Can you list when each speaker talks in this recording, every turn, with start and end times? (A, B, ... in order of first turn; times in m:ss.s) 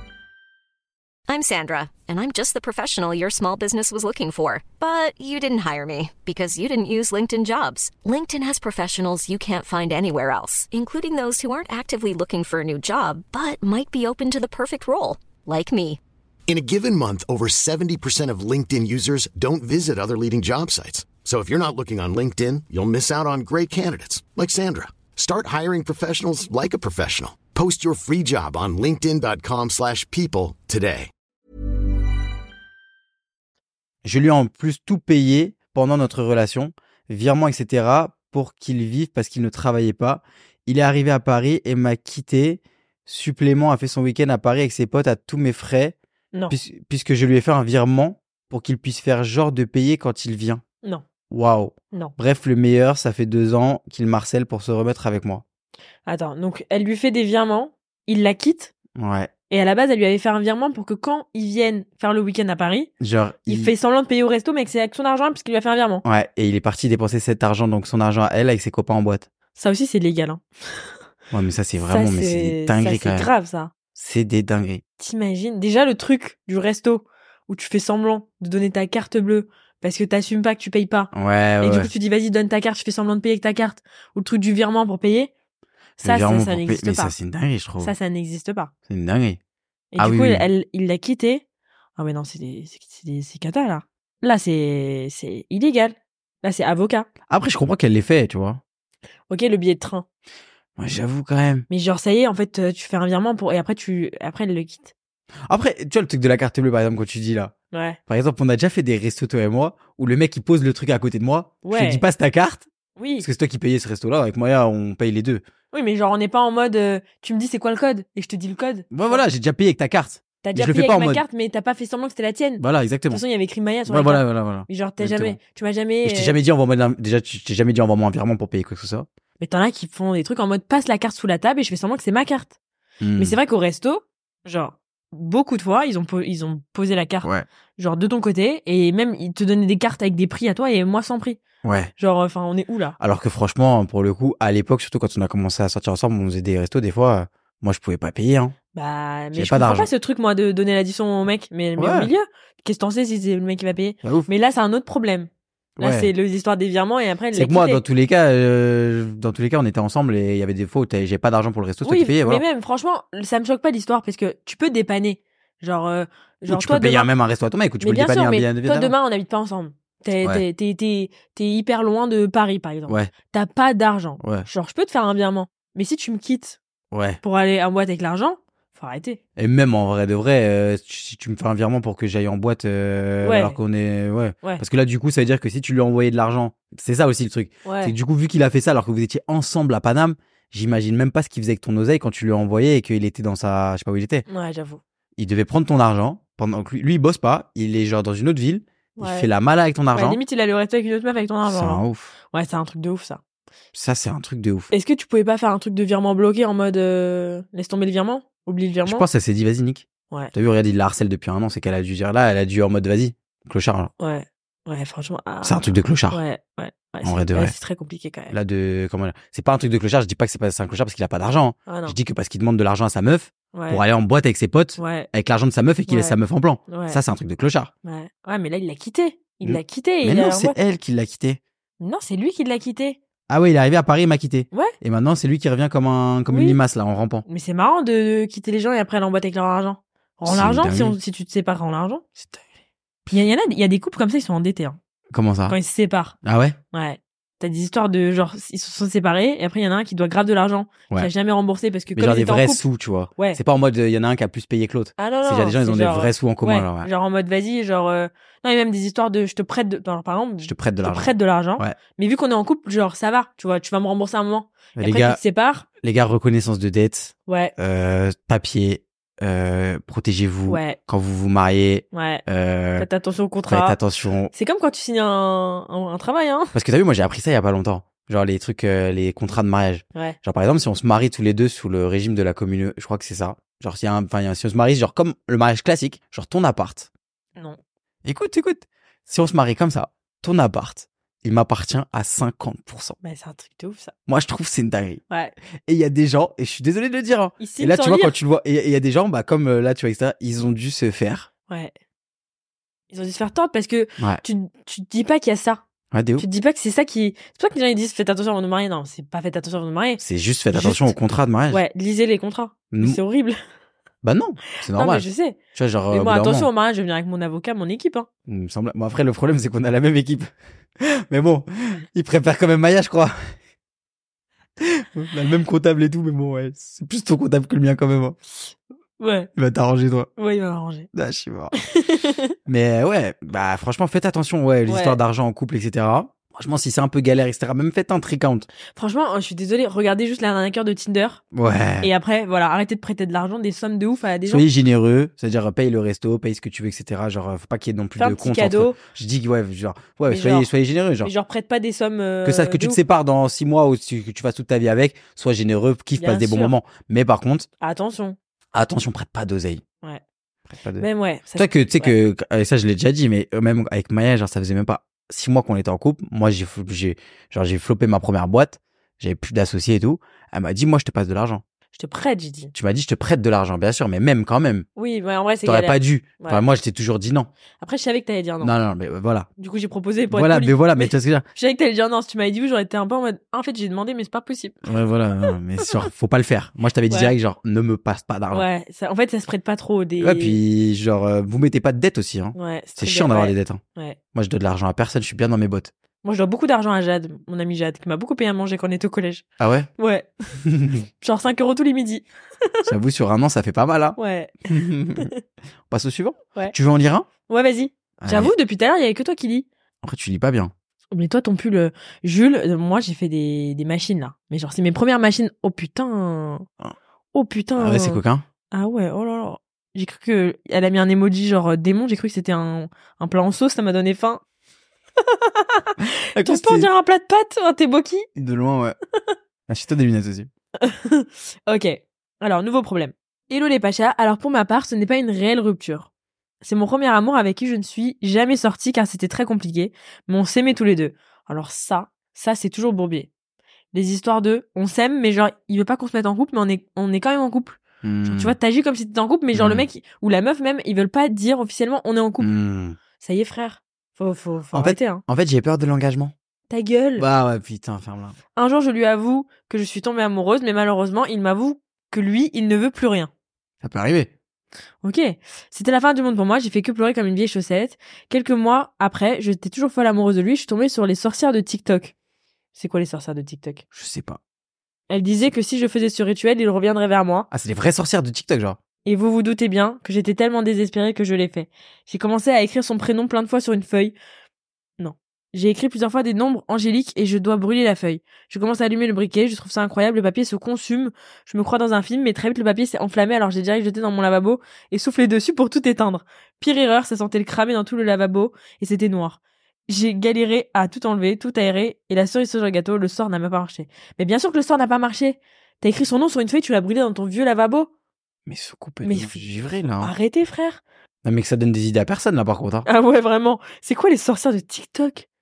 0:01.3-0:16.0 A
0:16.5-0:31.1 B
0:34.0-0:45.9 C
0:46.5-0:50.6 C
0:51.3-0:55.4 C
0:56.0-0:58.7 D
0:58.9-0:59.3 C
0:59.5-1:02.9 D
1:03.0-1:03.7 C
1:03.4-1:06.0 D
1:06.0-1:09.3 C
1:09.6-1:10.4 D
1:11.3-1:13.3 C
1:11.8-1:13.7 D
1:13.9-1:14.8 C
1:15.0-1:25.3 D
1:21.1-1:21.9 C
1:26.0-1:27.9 C
1:26.0-1:27.1 D
1:27.8-1:28.7 D
1:28.9-1:29.4 C
1:29.9-1:31.4 D
1:30.0-1:30.4 C
1:32.0-1:37.1 D
1:37.3-1:38.6 C
1:39.3-1:40.0 D
1:40.8-1:41.6 C
1:41.7-1:44.9 D
1:45.5-1:47.5 C
1:47.7-1:48.0 D
1:48.1-1:52.7 C
1:51.6-1:52.0 D
1:53.0-1:53.2 D
1:53.2-1:55.4 C
1:55.7-1:59.2 D
1:58.9-2:01.2 C
2:00.4-2:06.4 D
2:02.6-2:03.2 C
2:03.8-2:05.4 C
2:06.0-2:09.1 C
2:09.4-2:12.5 D
2:13.0-2:13.4 C
2:13.2-2:21.4 D
2:21.6-2:21.9 C
2:22.0-2:23.0 D
2:23.0-2:28.6 C
2:28.7-2:37.8 D
2:29.3-2:29.9 C
2:31.8-2:32.1 C
2:34.0-2:34.3 C
2:35.8-2:36.1 C
2:37.3-2:42.4 C
2:41.8-2:47.1 D
2:46.5-2:48.9 C
2:47.8-2:56.6 D
2:52.9-2:53.1 C
2:54.2-2:54.5 C
2:56.9-2:57.2 C
2:57.2-2:59.2 D
2:59.4-3:14.2 C
3:03.2-3:03.6 D
3:07.6-3:08.0 D
3:14.3-3:14.8 D
3:15.2-3:20.2 C
3:19.0-3:19.3 D
3:19.9-3:23.2 D
3:21.4-3:22.1 C
3:23.7-3:24.7 C
3:24.7-3:29.0 D
3:28.8-3:33.9 C
3:34.0-3:38.3 D
3:35.4-3:36.2 C
3:37.0-3:37.5 C
3:38.3-3:47.7 C
3:41.7-3:42.0 D
3:43.5-3:43.8 D
3:44.8-3:45.1 D
3:45.9-3:47.0 D
3:47.8-3:50.5 D
3:49.4-3:51.4 C
3:51.8-3:53.0 D
3:53.3-3:57.2 C
3:56.3-3:56.6 D
3:57.2-4:02.0 D
4:00.2-4:01.0 C
4:03.1-4:04.8 D
4:05.1-4:05.6 C
4:05.5-4:06.1 D
4:06.2-4:06.6 C
4:06.7-4:12.6 D
4:11.9-4:16.9 C
4:15.0-4:25.6 D
4:20.4-4:21.8 C
4:24.8-4:25.2 C
4:25.8-4:32.9 C
4:27.3-4:27.5 D
4:30.5-4:30.8 D
4:31.9-4:32.2 D
4:32.8-4:33.8 D
4:33.5-4:34.3 C
4:34.3-4:36.5 D
4:36.5-4:46.9 C
4:48.0-4:53.0 C
4:53.0-4:53.9 D
4:54.1-4:55.0 C
4:55.6-5:01.3 C
4:57.4-4:58.2 D
5:02.9-5:05.6 D
5:05.9-5:06.2 C
5:06.2-5:10.9 D
5:10.0-5:11.6 C
5:11.5-5:13.4 D
5:12.7-5:13.0 C
5:14.0-5:16.5 C
5:14.5-5:15.4 D
5:15.9-5:18.1 D
5:18.3-5:23.2 C
5:24.6-5:28.2 C
5:29.0-5:29.3 D
5:29.4-5:30.1 C
5:30.2-5:30.9 D
5:30.9-5:31.6 C
5:31.7-5:32.3 D
5:32.4-5:38.5 C
5:34.7-5:35.0 D
5:38.7-5:41.2 D
5:41.3-5:41.9 C
5:41.8-5:44.4 D
5:44.2-5:51.1 C
5:48.0-5:48.8 D
5:50.1-5:50.5 D
5:51.0-5:52.8 D
5:52.2-5:57.5 C
5:56.0-5:56.5 D
5:57.6-5:58.2 D
5:58.5-5:59.6 C
6:00.5-6:11.4 C
6:00.8-6:01.9 D
6:11.7-6:12.5 D
6:12.5-6:14.6 C
6:14.8-6:16.4 D
6:15.4-6:17.3 C
6:17.6-6:18.5 D
6:18.4-6:19.3 C
6:19.4-6:24.6 D
6:20.1-6:21.2 C
6:24.6-6:28.4 C
6:28.3-6:30.4 D
6:30.0-6:33.6 C
6:32.3-6:34.0 D
6:34.1-6:35.7 C
6:36.0-6:39.2 D
6:39.4-6:39.7 C
6:39.8-6:40.1 D
6:40.4-6:40.8 C
6:41.0-6:42.7 D
6:42.6-6:45.1 C
6:44.0-6:44.3 D
6:45.7-6:47.1 C
6:47.3-6:49.5 D
6:48.0-6:48.3 C
6:49.8-6:50.5 C
6:50.9-6:56.4 D
6:57.1-7:04.2 D
6:57.6-6:58.2 C
7:05.0-7:08.1 D
7:05.8-7:06.7 C
7:08.2-7:08.8 C
7:09.5-7:10.3 C
7:10.6-7:15.9 D
7:16.4-7:23.1 D
7:23.7-7:32.3 D
7:27.8-7:28.4 C
7:29.3-7:29.6 C
7:32.2-7:32.8 C
7:33.0-7:35.0 D
7:34.5-7:36.1 C
7:36.5-7:37.0 D
7:37.0-7:38.2 C
7:38.4-7:43.1 D
7:43.6-7:44.1 C
7:44.8-7:51.9 D
7:52.5-7:53.6 D
7:53.7-7:54.2 C
7:54.9-7:57.3 D
7:57.3-7:58.6 C
7:58.8-8:03.9 D
8:04.8-8:27.7 D
8:28.2-8:29.9 C
8:28.8-8:29.2 D
8:29.8-8:30.6 D
8:31.0-8:32.7 C
8:32.6-8:35.0 D